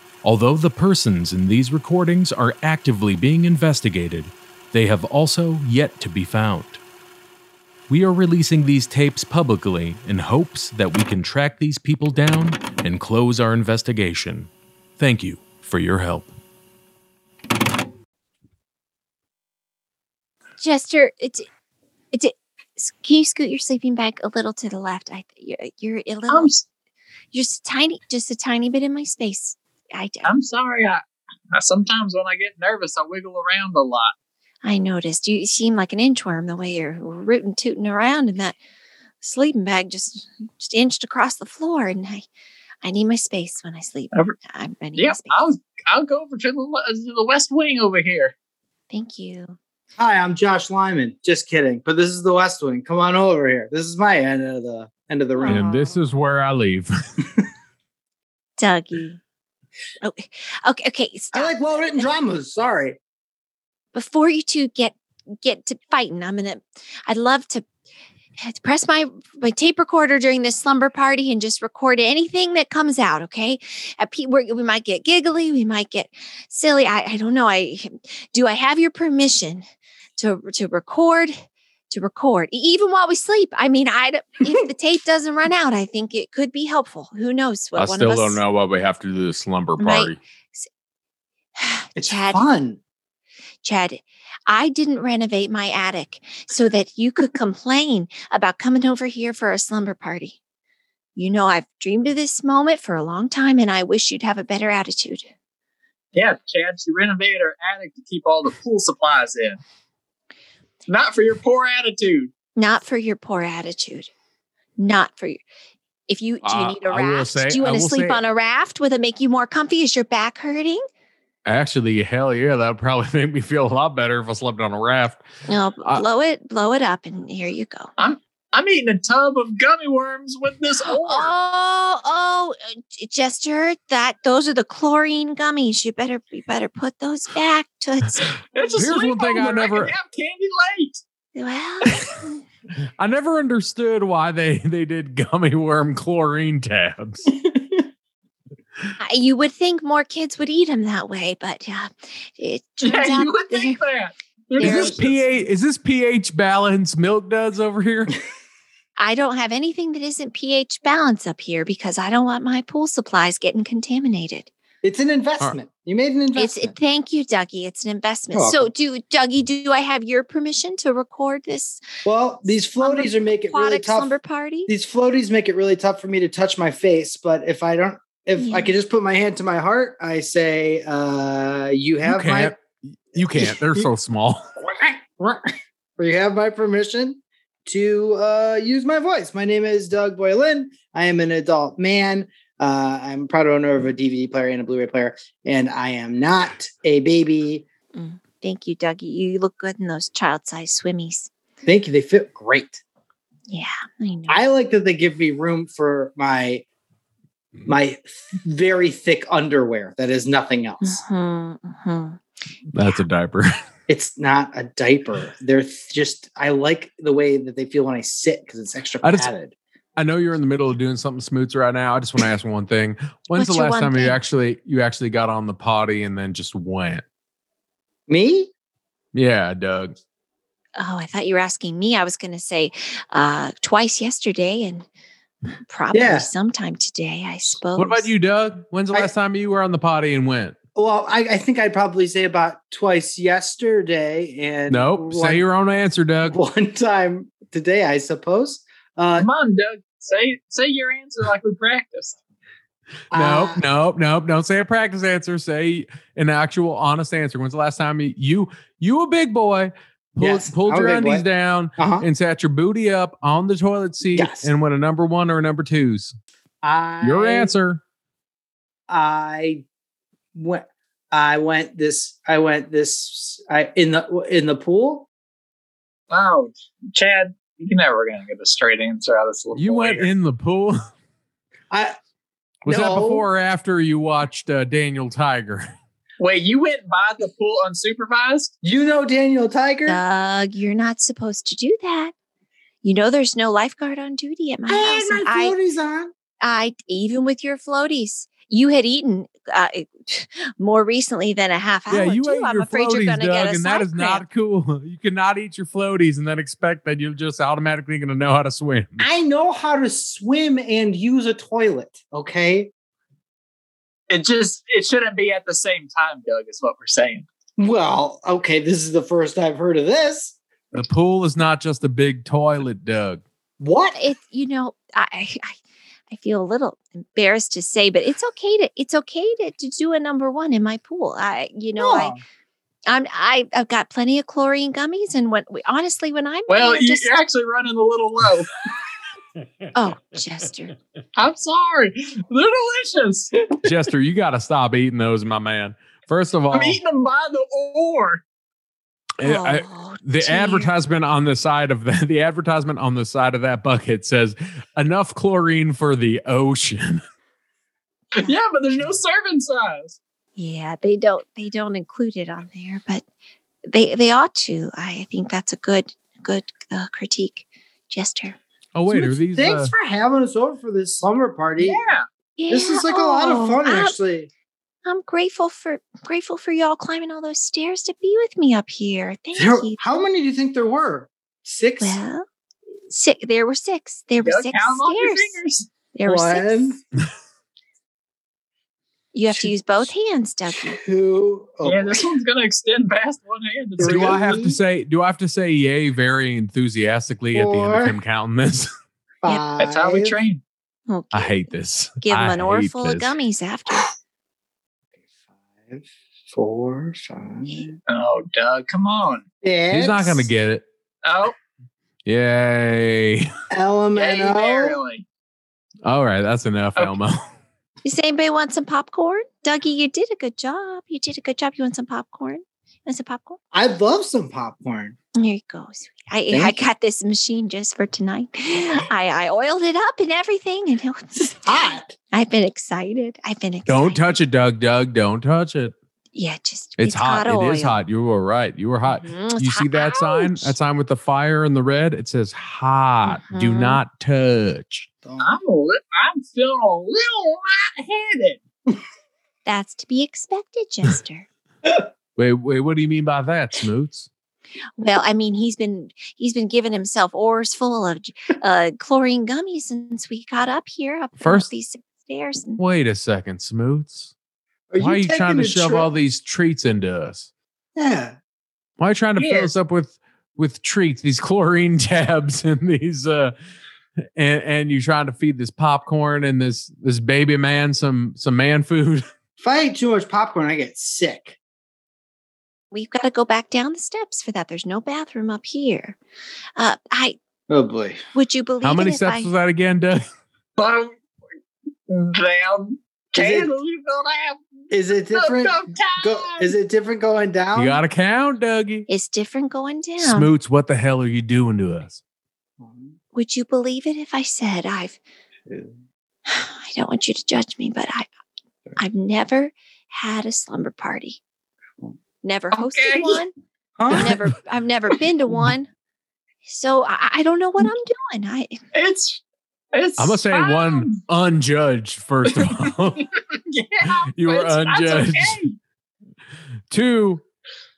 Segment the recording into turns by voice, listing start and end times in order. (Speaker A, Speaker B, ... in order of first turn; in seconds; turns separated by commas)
Speaker A: 0.2-6.8, Speaker A: 7.9-16.3, Speaker B: 20.6-21.5, Speaker B: 22.1-26.5, Speaker C: 26.3-26.6, Speaker B: 27.3-30.3, Speaker C: 30.2-31.0, Speaker C: 31.5-34.1, Speaker B: 34.6-38.6, Speaker B: 39.2-42.2, Speaker B: 42.8-45.4, Speaker C: 45.0-48.3, Speaker B: 48.9-49.6, Speaker D: 50.0-55.9, Speaker B: 55.4-55.8, Speaker E: 55.5-56.9, Speaker B: 58.6-59.2, Speaker B: 60.0-62.0, Speaker D: 61.3-63.0, Speaker B: 63.9-67.6, Speaker B: 68.4-79.6, Speaker B: 80.2-88.4, Speaker E: 87.8-90.2, Speaker B: 89.8-90.7, Speaker B: 91.6-92.4, Speaker D: 92.0-92.8, Speaker B: 93.6-100.4, Speaker B: 101.2-105.3, Speaker C: 106.1-109.6, Speaker C: 110.9-112.3, Speaker B: 112.5-114.1, Speaker B: 114.8-115.4, Speaker B: 116.1-120.8, Speaker E: 116.4-118.2, Speaker E: 121.5-125.2, Speaker B: 125.5-127.9, Speaker C: 128.0-131.3, Speaker B: 130.8-138.8, Speaker C: 138.5-141.0, Speaker E: 138.8-139.9, Speaker B: 141.3-142.4, Speaker E: 143.0-147.2, Speaker D: 147.3-147.8, Speaker B: 149.0-153.8, Speaker C: 152.8-155.2, Speaker D: 154.6-155.0, Speaker E: 154.6-158.2, Speaker B: 154.6-154.9, Speaker B: 159.0-164.5, Speaker D: 164.8-166.7, Speaker B: 166.3-171.8, Speaker D: 168.3-168.7, Speaker D: 172.0-174.1, Speaker B: 172.4-174.7, Speaker D: 174.7-182.6, Speaker B: 178.3-178.7, Speaker E: 182.0-184.5, Speaker D: 183.4-183.8, Speaker D: 184.6-197.6, Speaker B: 197.9-201.3, Speaker D: 201.6-202.8, Speaker B: 203.5-204.4, Speaker D: 204.3-206.6, Speaker D: 207.7-211.0, Speaker B: 210.8-212.2, Speaker E: 212.7-213.6, Speaker D: 213.9-219.5, Speaker E: 219.0-219.3, Speaker E: 219.9-227.0, Speaker B: 223.3-224.2, Speaker D: 228.1-228.5, Speaker E: 229.1-229.9, Speaker B: 230.8-234.8, Speaker B: 235.7-238.1, Speaker D: 235.9-236.3, Speaker E: 237.8-240.6, Speaker D: 240.7-245.4, Speaker E: 244.7-246.4, Speaker D: 246.3-249.3, Speaker C: 249.2-252.2, Speaker D: 253.1-253.6, Speaker E: 253.1-266.1, Speaker D: 260.2-261.2, Speaker D: 261.8-262.1, Speaker D: 264.1-264.5, Speaker D: 266.6-267.6, Speaker E: 267.0-267.8, Speaker D: 268.9-269.6, Speaker D: 270.3-275.1, Speaker C: 276.1-280.1, Speaker E: 279.6-280.8, Speaker D: 281.7-282.0, Speaker D: 282.6-283.2, Speaker E: 282.7-285.7, Speaker C: 286.2-288.5, Speaker D: 288.6-290.0, Speaker B: 289.9-292.1, Speaker B: 292.8-295.6, Speaker D: 294.7-296.1, Speaker B: 296.4-304.2, Speaker E: 301.9-309.1, Speaker D: 309.0-312.7, Speaker C: 314.1-317.2, Speaker D: 317.6-320.4, Speaker E: 320.7-323.2, Speaker D: 323.6-324.0, Speaker B: 323.9-325.6, Speaker B: 326.1-332.1, Speaker D: 331.8-332.2, Speaker B: 332.9-337.1, Speaker C: 336.5-338.5, Speaker B: 339.7-340.7, Speaker C: 341.1-343.5, Speaker E: 343.6-346.8, Speaker C: 346.5-348.2, Speaker E: 349.2-357.0, Speaker B: 349.2-350.7, Speaker C: 358.1-360.0, Speaker B: 360.4-363.0, Speaker B: 363.7-368.4, Speaker E: 368.7-369.7, Speaker D: 368.9-371.8, Speaker C: 371.6-372.0, Speaker B: 372.4-374.0, Speaker D: 372.5-374.3, Speaker B: 374.8-379.8, Speaker D: 379.3-382.0, Speaker B: 381.8-382.2, Speaker B: 382.9-385.4, Speaker C: 384.2-385.7, Speaker B: 385.9-386.8, Speaker D: 386.0-386.8, Speaker B: 389.1-390.8, Speaker D: 389.3-389.9, Speaker D: 390.7-392.1, Speaker C: 391.6-394.4, Speaker D: 393.8-394.6, Speaker E: 393.8-398.7, Speaker D: 397.3-398.0, Speaker D: 399.2-400.2, Speaker C: 399.6-400.4, Speaker B: 400.9-401.3, Speaker E: 401.1-403.1, Speaker B: 402.0-403.9, Speaker D: 405.6-407.8, Speaker C: 407.9-409.2, Speaker D: 409.4-410.3, Speaker E: 409.7-410.6, Speaker C: 411.0-411.3, Speaker E: 412.0-413.3, Speaker D: 413.5-414.8, Speaker C: 413.9-415.0, Speaker E: 415.9-417.2, Speaker B: 417.8-423.4, Speaker D: 423.5-424.9, Speaker B: 425.1-434.0, Speaker D: 426.3-426.7, Speaker D: 431.2-431.9, Speaker E: 433.7-435.7, Speaker B: 436.1-437.8, Speaker E: 436.8-444.9, Speaker B: 438.9-440.6, Speaker B: 443.1-443.8, Speaker D: 445.0-445.4, Speaker C: 445.2-448.4, Speaker B: 449.4-451.3, Speaker E: 452.2-454.1, Speaker B: 454.8-462.6, Speaker E: 461.2-461.5, Speaker E: 462.6-464.1, Speaker D: 464.7-465.9, Speaker E: 464.8-467.3, Speaker D: 467.8-468.1, Speaker E: 468.8-473.3, Speaker C: 469.2-469.5, Speaker E: 474.2-479.0, Speaker D: 479.4-481.4, Speaker B: 482.7-486.0, Speaker B: 486.6-487.2, Speaker D: 487.5-488.0, Speaker B: 488.1-489.3, Speaker E: 488.6-490.0, Speaker C: 490.6-490.9, Speaker C: 491.9-496.5, Speaker D: 493.1-493.5, Speaker D: 494.7-497.8, Speaker E: 497.5-498.9, Speaker B: 498.9-500.3, Speaker E: 500.0-502.0, Speaker D: 502.6-502.9, Speaker B: 503.1-505.0, Speaker D: 505.5-505.7, Speaker B: 506.2-508.1, Speaker B: 508.8-511.2, Speaker B: 512.2-513.3, Speaker C: 512.5-513.2, Speaker D: 513.8-514.2, Speaker B: 513.9-515.7, Speaker B: 516.5-518.6, Speaker C: 518.7-519.2, Speaker C: 519.7-521.0, Speaker E: 520.0-523.1, Speaker C: 522.3-525.5, Speaker E: 523.9-525.4, Speaker E: 526.7-527.2